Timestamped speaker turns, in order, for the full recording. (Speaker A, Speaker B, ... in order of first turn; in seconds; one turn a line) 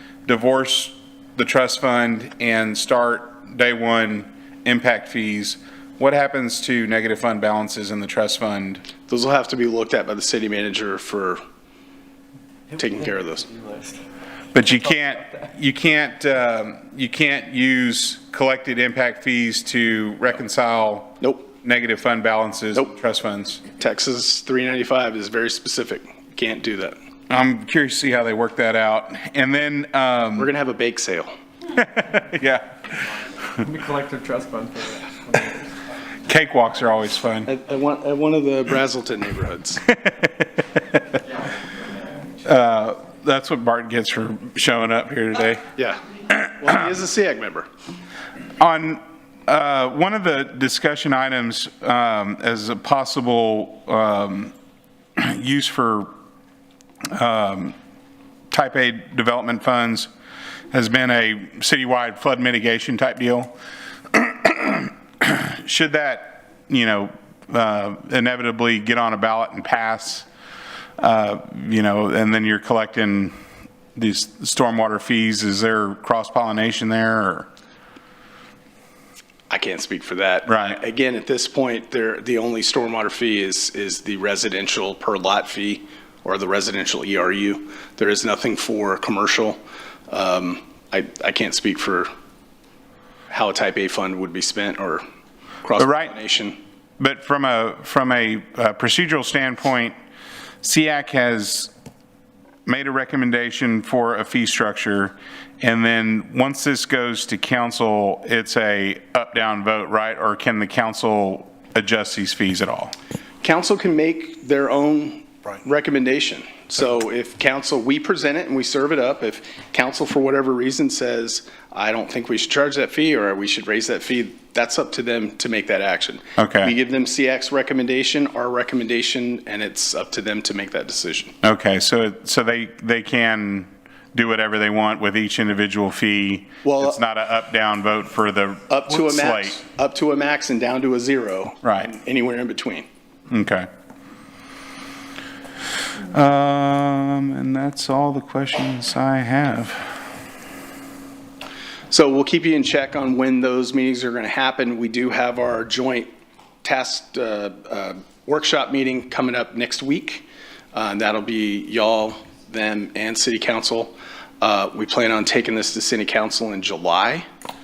Speaker A: 0.3-8.8
Speaker B: 9.1-11.4
Speaker B: 12.7-13.5
Speaker C: 13.6-14.0
Speaker A: 14.5-23.6
Speaker B: 21.2-21.5
Speaker B: 23.8-26.9
Speaker A: 27.3-30.5
Speaker B: 30.4-31.3
Speaker A: 31.7-33.0
Speaker C: 33.6-35.7
Speaker A: 36.3-37.5
Speaker B: 37.5-39.8
Speaker A: 40.0-40.3
Speaker A: 42.4-45.7
Speaker B: 45.8-47.7
Speaker A: 48.6-54.5
Speaker A: 55.2-56.1
Speaker A: 57.1-57.8
Speaker A: 58.5-60.1
Speaker A: 60.7-63.5
Speaker A: 64.1-70.3
Speaker A: 71.0-73.3
Speaker A: 74.0-77.5
Speaker B: 79.5-92.1
Speaker A: 80.5-80.8
Speaker B: 93.3-95.0
Speaker B: 95.6-96.6
Speaker A: 95.8-96.1
Speaker A: 97.0-99.9
Speaker A: 100.6-101.7
Speaker A: 102.7-112.9
Speaker B: 113.4-131.3
Speaker A: 126.4-126.7
Speaker A: 131.4-139.6
Speaker B: 136.6-137.0
Speaker B: 138.7-142.9
Speaker A: 141.6-141.9
Speaker A: 143.3-143.7
Speaker A: 146.1-149.9
Speaker B: 151.9-156.1
Speaker B: 156.6-167.2